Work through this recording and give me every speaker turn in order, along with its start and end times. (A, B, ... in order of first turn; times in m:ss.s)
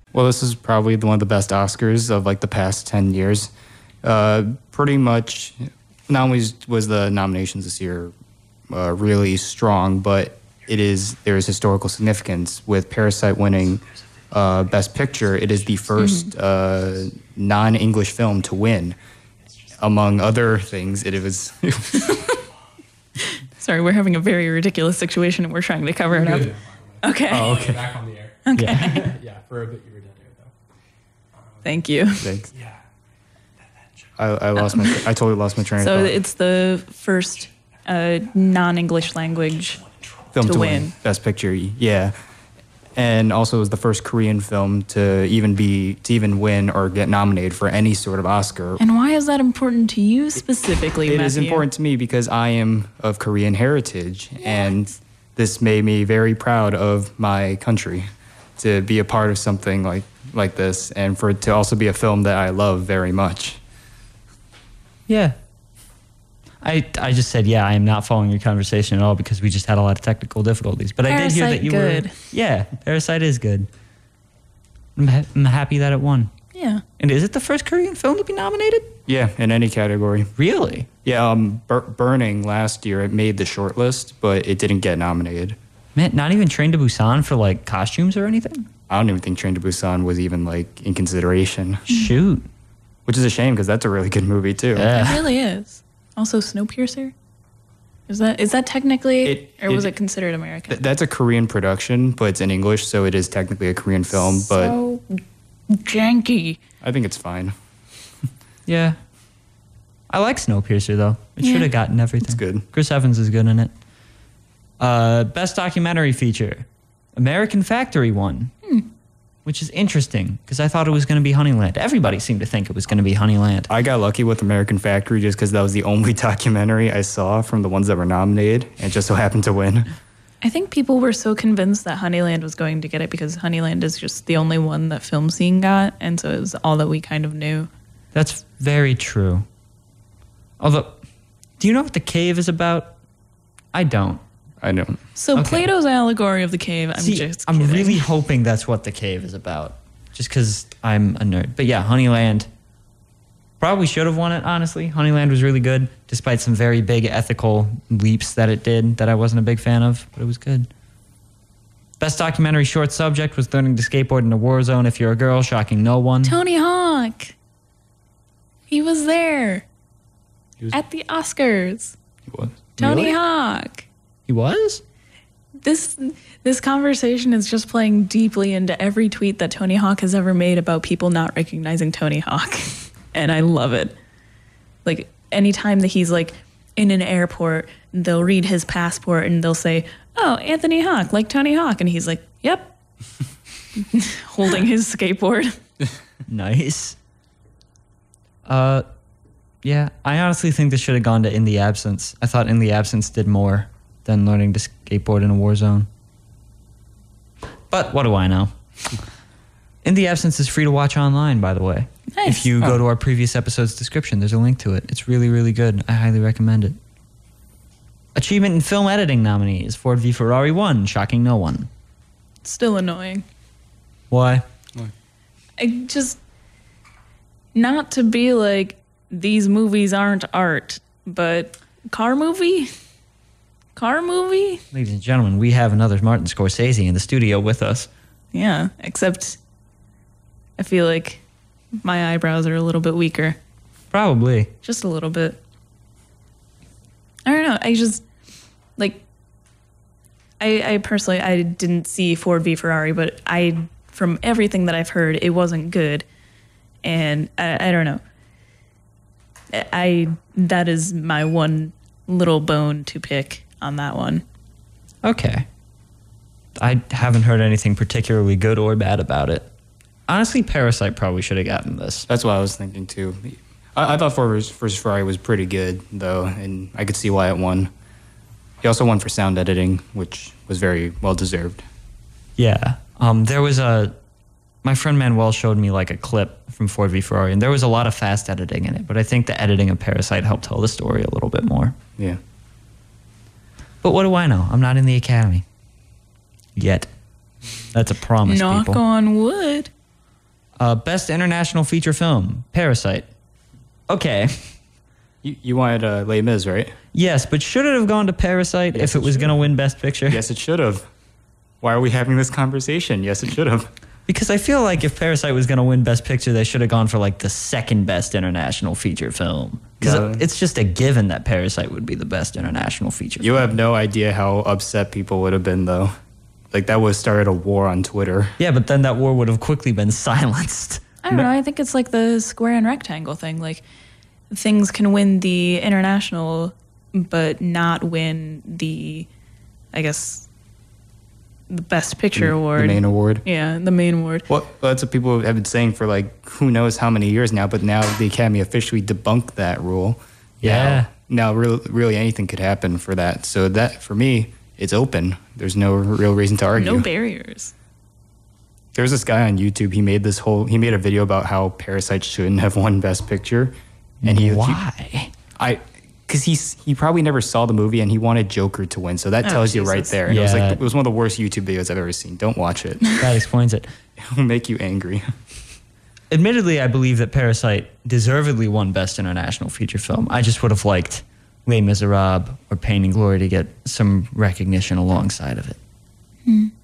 0:00.1-0:03.5 A
0:04.0-0:05.6 A
0:06.1-0:08.1 A
0:08.7-0:19.0 A
0:16.0-0:16.3 B
0:19.8-0:22.2 A
0:22.0-0:22.4 B
0:23.2-0:27.6 B
0:26.1-0:30.5 C
0:27.3-0:27.9 A
0:28.5-0:29.1 B
0:28.6-0:28.8 D
0:31.3-0:31.8 C
0:31.6-0:32.3 B
0:32.2-0:32.5 A
0:32.5-0:32.8 C
0:34.2-0:36.2 A
0:34.6-0:35.0 B
0:35.8-0:39.8 B
0:40.3-0:42.2 A
0:40.4-0:40.9 B
0:43.0-0:48.8 A
0:48.8-0:51.6 B
0:51.1-0:58.1 A
0:54.4-0:54.7 B
0:58.6-1:03.6 A
1:05.1-1:05.4 D
1:06.6-1:13.7 D
1:11.0-1:12.2 B
1:15.0-1:16.3 D
1:16.5-1:16.8 B
1:17.0-1:19.0 D
1:19.1-1:20.3 A
1:20.4-1:20.9 D
1:21.0-1:25.6 A
1:26.0-1:28.7 D
1:28.9-1:31.9 A
1:31.9-1:32.5 D
1:33.1-1:34.9 A
1:34.7-1:35.3 D
1:34.8-1:37.1 B
1:38.1-1:40.8 B
1:39.2-1:39.9 A
1:40.7-1:44.8 A
1:44.2-1:46.6 B
1:46.8-1:47.5 A
1:48.7-1:49.0 D
1:50.1-1:53.7 D
1:51.4-1:51.7 B
1:52.2-1:52.6 A
1:54.8-1:58.5 D
1:59.4-2:03.7 D
2:03.7-2:09.9 A
2:10.4-2:17.7 B
2:18.1-2:19.5 D
2:20.6-2:21.0 D
2:21.6-2:23.0 D
2:23.7-2:24.2 D
2:24.6-2:25.0 A
2:25.2-2:28.0 B
2:25.4-2:25.6 D
2:27.0-2:32.5 D
2:33.6-2:40.7 D
2:42.0-2:46.4 D
2:46.2-2:47.4 B
2:48.7-2:49.7 B
2:50.7-2:52.0 B
2:52.3-2:53.1 A
2:52.8-2:53.9 B
2:52.8-2:53.1 D
2:54.3-2:54.8 D
2:55.6-3:04.0 B
3:04.8-3:12.7 B
3:13.8-3:15.6 B
3:16.3-3:17.0 D
3:18.4-3:18.9 D
3:19.6-3:25.9 D
3:27.7-3:28.5 D
3:29.8-3:36.8 D
3:32.1-3:32.5 B
3:38.2-3:41.7 D
3:42.4-3:43.2 B
3:44.1-3:44.5 D
3:45.6-3:46.2 B
3:47.6-3:52.7 B
3:53.8-3:54.6 B
3:54.7-3:57.9 D
3:58.3-3:59.4 B
4:00.6-4:01.2 B
4:01.8-4:03.4 B
4:03.9-4:04.5 D
4:04.6-4:05.4 B
4:07.3-4:08.0 B
4:08.8-4:09.0 B
4:10.4-4:16.1 B
4:16.8-4:18.0 B
4:19.5-4:24.2 B
4:25.0-4:25.5 D
4:26.6-4:29.5 D
4:30.1-4:32.1 D
4:32.1-4:37.7 A
4:38.6-4:41.6 A
4:42.4-4:43.9 D
4:44.6-4:51.8 D
4:53.8-4:55.4 D
4:56.6-4:56.9 D
4:57.7-4:58.8 D
4:58.3-4:59.7 B
5:00.6-5:03.1 D
5:03.9-5:04.5 D
5:05.2-5:06.8 A
5:06.9-5:10.2 D
5:08.8-5:09.4 A
5:10.1-5:10.9 A
5:11.6-5:13.7 A
5:14.1-5:23.5 D
5:19.8-5:20.2 A
5:23.2-5:25.9 A
5:26.5-5:28.3 A
5:28.4-5:30.8 D
5:31.0-5:33.6 B
5:34.3-5:39.1 B
5:39.7-5:40.3 B
5:41.5-5:44.3 B
5:42.2-5:43.2 A
5:44.3-5:56.9 A
5:50.4-5:50.9 D
5:56.6-5:57.5 B
5:58.8-6:04.6 A
6:04.0-6:05.1 D
6:05.4-6:13.0 A
6:09.2-6:09.9 B
6:10.0-6:10.6 D
6:13.0-6:13.7 D
6:14.0-6:15.1 A
6:16.1-6:25.6 D
6:26.3-6:26.5 B